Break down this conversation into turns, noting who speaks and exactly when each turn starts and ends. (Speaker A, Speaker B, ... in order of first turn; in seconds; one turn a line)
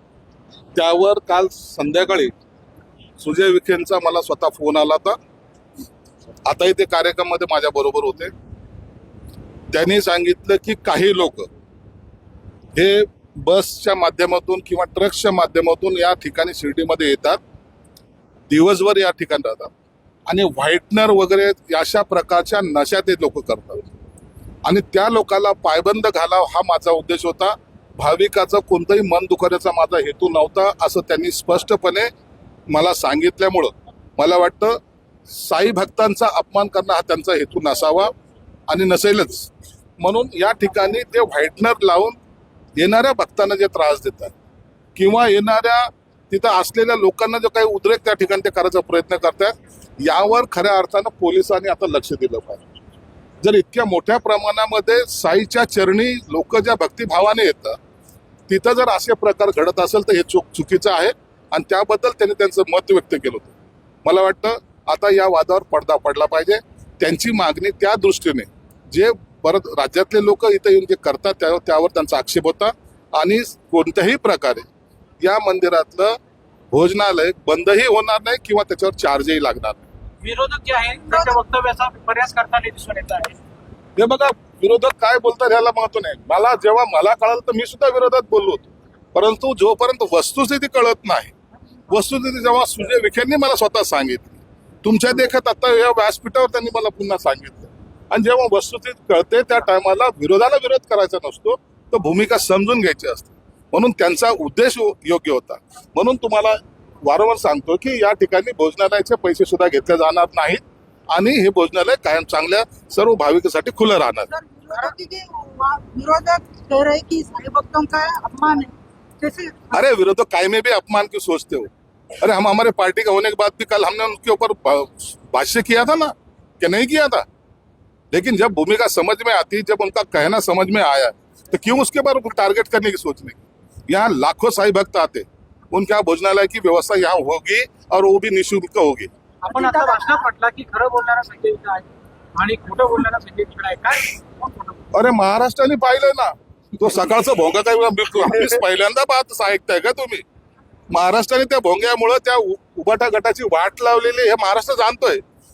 Speaker A: 0.8-2.3
Speaker A: 3.2-5.2
Speaker A: 6.5-8.3
Speaker A: 9.7-11.5
Speaker A: 12.8-17.4
Speaker A: 18.5-19.7
Speaker A: 20.3-23.9
Speaker A: 24.6-32.1
Speaker A: 32.7-38.1
Speaker A: 38.7-39.5
Speaker A: 40.0-42.2
Speaker A: 42.8-44.3
Speaker A: 45.0-52.6
Speaker A: 53.4-57.8
Speaker A: 58.5-63.5
Speaker A: 64.0-74.7
Speaker A: 75.2-76.2
Speaker A: 76.7-79.9
Speaker B: 80.2-83.4
Speaker C: 81.1-81.4
Speaker A: 84.0-91.3
Speaker A: 91.9-114.3
Speaker C: 114.3-119.8
Speaker A: 119.7-121.7
Speaker A: 122.2-127.3
Speaker A: 128.1-139.1
Speaker B: 139.4-144.8
Speaker C: 139.5-140.2
Speaker A: 144.9-150.2
Speaker A: 150.9-155.2